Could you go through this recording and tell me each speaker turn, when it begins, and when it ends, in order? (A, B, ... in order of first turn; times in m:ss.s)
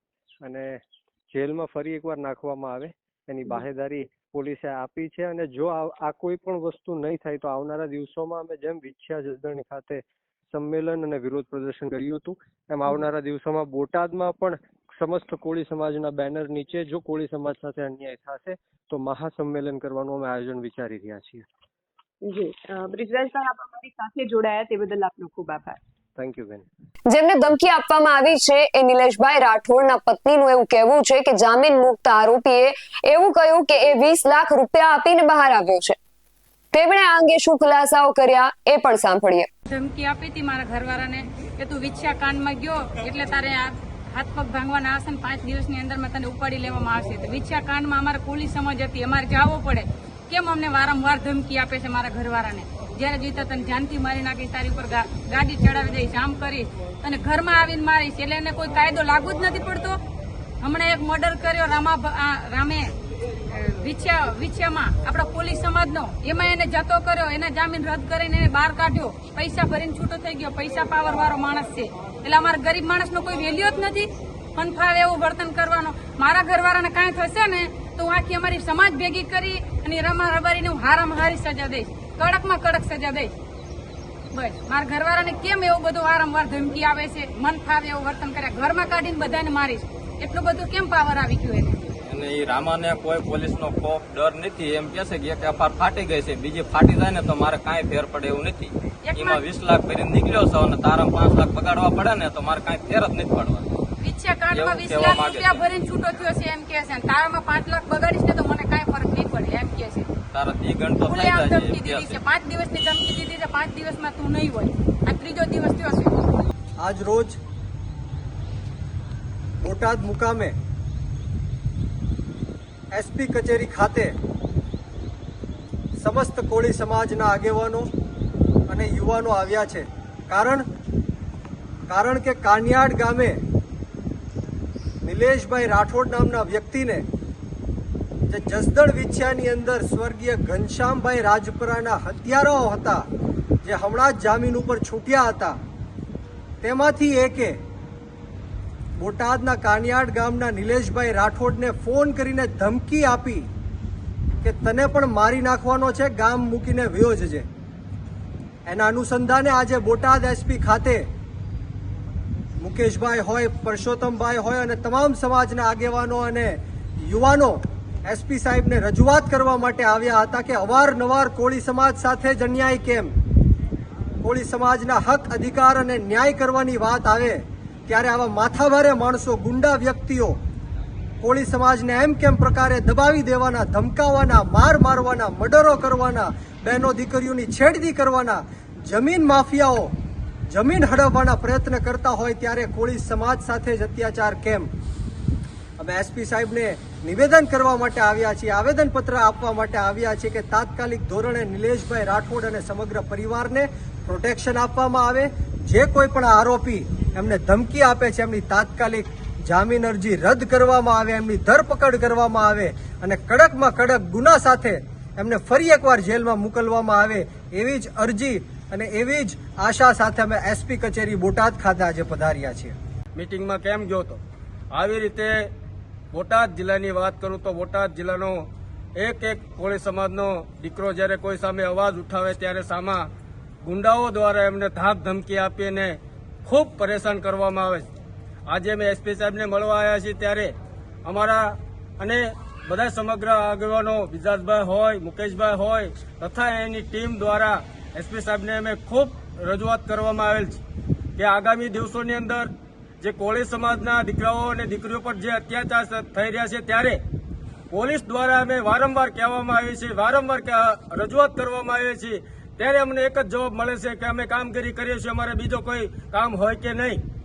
0:00.4-0:21.4 A
0:22.2-0:25.8 B
0:26.2-0:26.6 A
0:27.1-0:36.0 C
0:36.7-0:39.5 C
0:39.7-1:00.0 D
1:00.6-1:02.9 D
1:03.5-1:23.3 D
1:24.3-1:31.8 D
1:32.0-1:43.7 E
1:39.0-1:39.4 D
1:44.0-1:50.1 D
1:44.5-1:45.7 E
1:50.3-1:52.2 E
1:51.0-1:56.2 D
1:56.8-1:57.4 F
1:59.6-2:00.5 F
2:02.9-2:04.1 F
2:06.0-2:07.9 F
2:08.7-2:10.6 F
2:11.9-2:13.4 F
2:15.0-2:17.0 F
2:18.3-2:23.0 F
2:23.6-2:25.6 F
2:26.6-2:27.6 F
2:29.0-2:33.5 F
2:34.4-2:37.5 F
2:38.6-2:41.0 F
2:42.6-2:53.1 F
2:54.2-3:00.4 F
3:01.2-3:09.9 F
3:10.5-3:14.7 F
3:15.8-3:42.7 F
3:43.2-3:44.2 G
3:44.7-3:45.5 G
3:46.1-3:53.1 G
3:53.6-3:57.9 G
3:58.5-4:00.5 G
4:01.0-4:10.6 G
4:11.2-4:17.0 G
4:17.7-4:27.0 G